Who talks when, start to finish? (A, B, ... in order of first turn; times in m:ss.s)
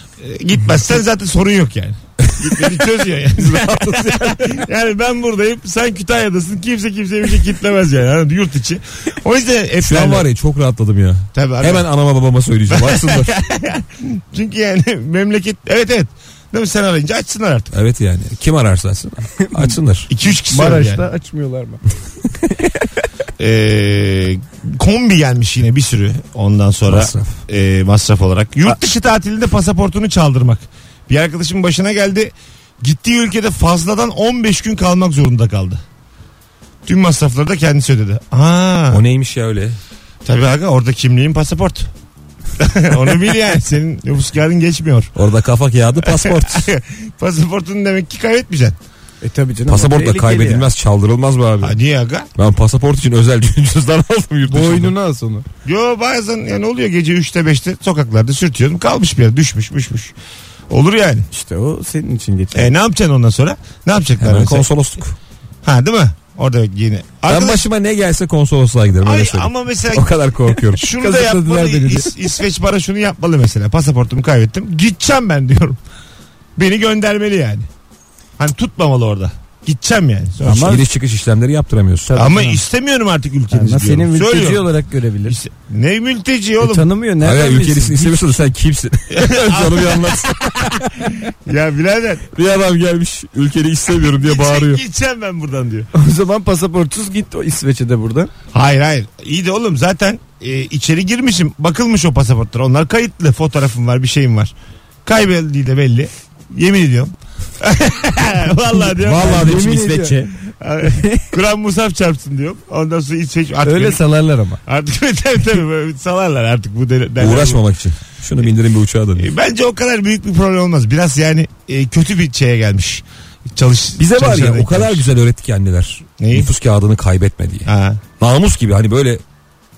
0:00.2-0:10.3 A
0:02.3-0:02.7 B
0:03.4-0:04.6 B
0:09.8-0:13.3 B
0:11.3-0:11.9 A
0:12.7-0:17.7 A
0:17.7-0:20.1 B
0:19.4-0:19.8 C
0:20.1-0:21.0 A
0:20.5-0:21.8 C
0:23.4-0:35.8 A
0:26.9-0:27.4 B
0:36.9-0:39.0 A
0:38.9-0:39.8 B
0:40.2-0:41.9 A
0:42.6-0:45.1 A
0:45.2-0:46.7 B
0:46.0-0:48.8 A
0:49.2-0:50.7 C
0:49.7-0:51.8 B
0:51.6-0:52.3 A
0:52.4-0:54.9 B
0:54.5-0:55.5 C
0:55.6-1:00.1 A
1:00.7-1:01.3 A
1:01.3-1:02.7 C
1:02.5-1:04.7 A
1:04.2-1:05.2 B
1:05.6-1:07.6 A
1:07.3-1:10.9 B
1:09.0-1:10.1 A
1:10.7-1:15.8 A
1:10.9-1:12.1 C
1:16.6-1:17.7 A
1:18.4-1:20.8 A
1:20.4-1:20.8 C
1:20.4-1:22.1 B
1:22.1-1:22.6 C
1:22.2-1:24.7 A
1:23.5-1:25.4 C
1:25.3-1:26.9 A
1:26.6-1:28.4 C
1:27.2-1:31.1 B
1:29.1-1:30.9 A
1:31.5-1:32.3 A
1:32.3-1:34.8 B
1:34.0-1:35.9 A
1:36.0-1:38.3 C
1:38.5-1:44.5 A
1:45.0-1:49.5 A
1:49.0-1:50.3 B
1:49.2-1:50.2 C
1:50.6-1:54.0 A
1:50.9-1:51.2 C
1:53.6-1:54.6 C
1:54.6-1:57.6 A
1:57.2-1:59.3 B
1:59.2-2:05.1 A
2:04.0-2:07.7 B
2:06.2-2:06.5 A
2:07.6-2:08.0 A
2:08.2-2:09.2 B